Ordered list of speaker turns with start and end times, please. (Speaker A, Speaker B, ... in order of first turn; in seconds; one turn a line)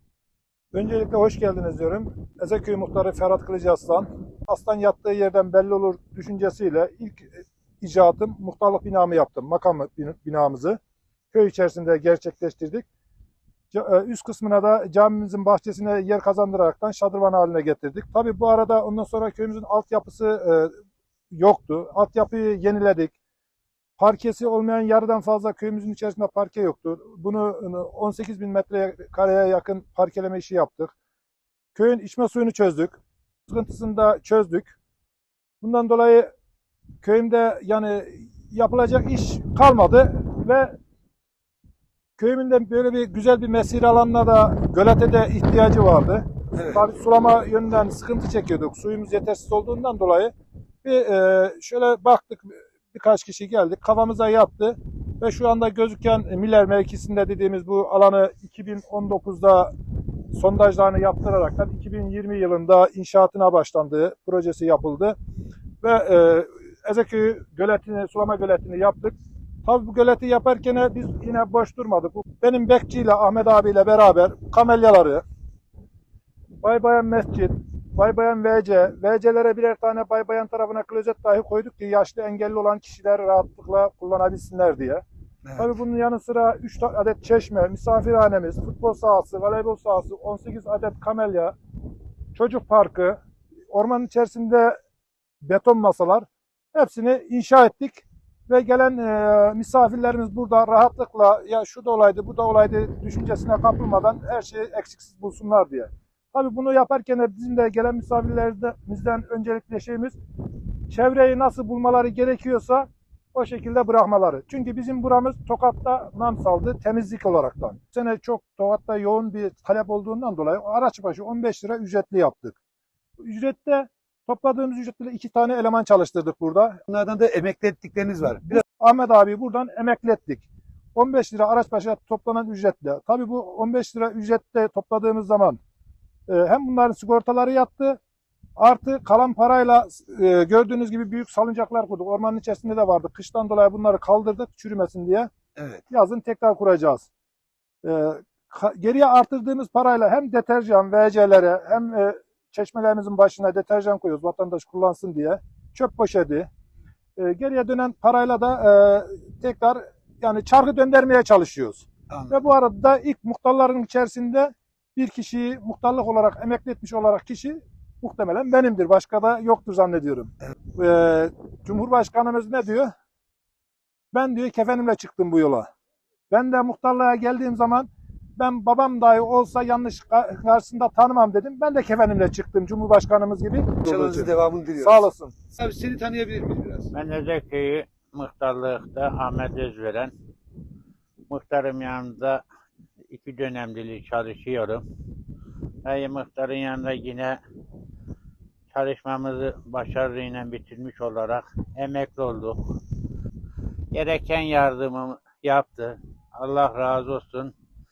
Speaker A: 0.7-7.3
Speaker A: 7.8-10.8
Speaker A: 11.3-12.9
Speaker A: 13.7-20.7
Speaker A: 21.3-23.1
Speaker A: 24.0-30.9
Speaker A: 31.8-34.8
Speaker A: 35.6-36.3
Speaker A: 37.0-40.8
Speaker A: 42.2-50.3
Speaker B: 46.6-46.8
Speaker A: 50.8-59.7
Speaker A: 60.3-65.2
Speaker A: 65.8-75.2
Speaker A: 76.6-85.0
Speaker A: 85.6-91.5
Speaker A: 92.3-93.2
Speaker A: 93.7-94.8
Speaker A: 95.4-110.2
Speaker A: 110.9-122.6
Speaker A: 123.2-126.8
Speaker B: 126.9-128.6
Speaker A: 128.5-135.6
Speaker A: 136.3-138.0
Speaker A: 138.6-145.3
Speaker B: 145.6-145.8
Speaker A: 145.9-147.1
Speaker A: 147.8-156.5
Speaker A: 157.2-172.9
Speaker A: 174.1-175.7
Speaker A: 176.3-185.3
Speaker B: 183.8-186.9
Speaker C: 186.9-190.1
Speaker C: 191.3-192.4
Speaker C: 193.1-194.8
Speaker C: 195.8-197.4
Speaker C: 198.7-202.7
Speaker C: 203.9-207.5